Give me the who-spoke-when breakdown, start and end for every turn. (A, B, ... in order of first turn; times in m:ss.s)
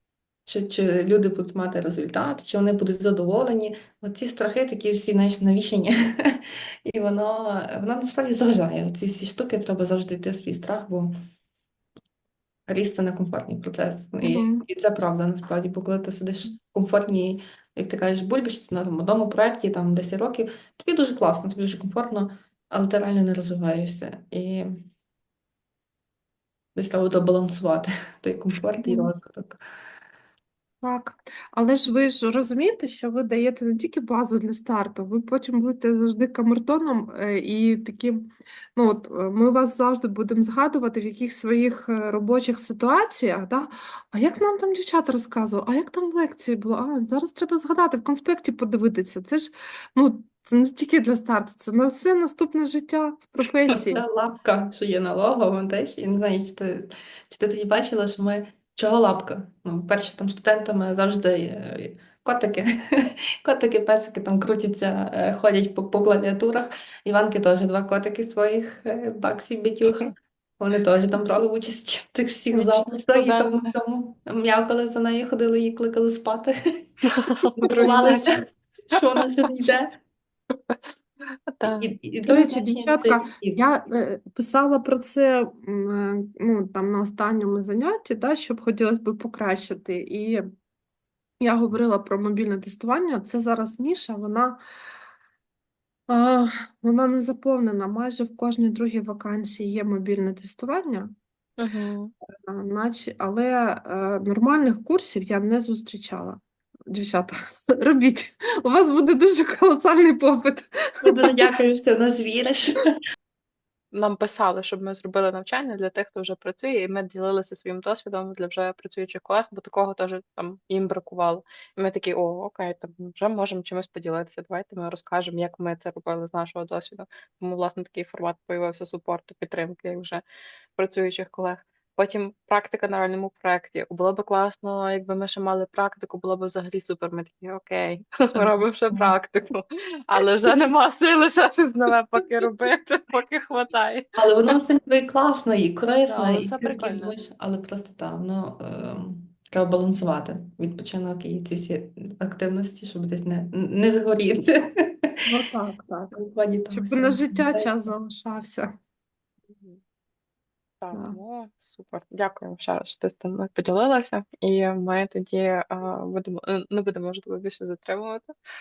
0:00.5-0:11.1 A
0:12.7-0:24.8 A
0:14.2-0:14.6 B
0:26.8-0:29.6 A
0:28.8-0:29.1 B
0:30.8-0:54.0 B
0:53.7-1:16.5 A
1:12.5-1:13.8 C
1:17.0-1:18.4 C
1:17.4-1:19.9 A
1:18.9-1:19.2 C
1:21.5-1:21.9 C
1:21.6-1:23.6 A
1:22.2-1:30.5 B
1:31.4-1:34.6 B
1:36.1-1:41.1 B
1:41.6-1:42.1 C
1:42.5-1:51.4 B
1:51.0-1:52.9 A
1:53.9-2:10.2 C
2:10.8-2:24.2 C
2:24.2-2:35.1 A
2:26.1-2:27.1 C
2:35.3-2:36.2 B
2:36.1-2:37.9 A
2:36.7-2:38.7 B
2:39.5-2:39.8 C
2:40.8-2:48.3 C
2:40.9-2:41.2 B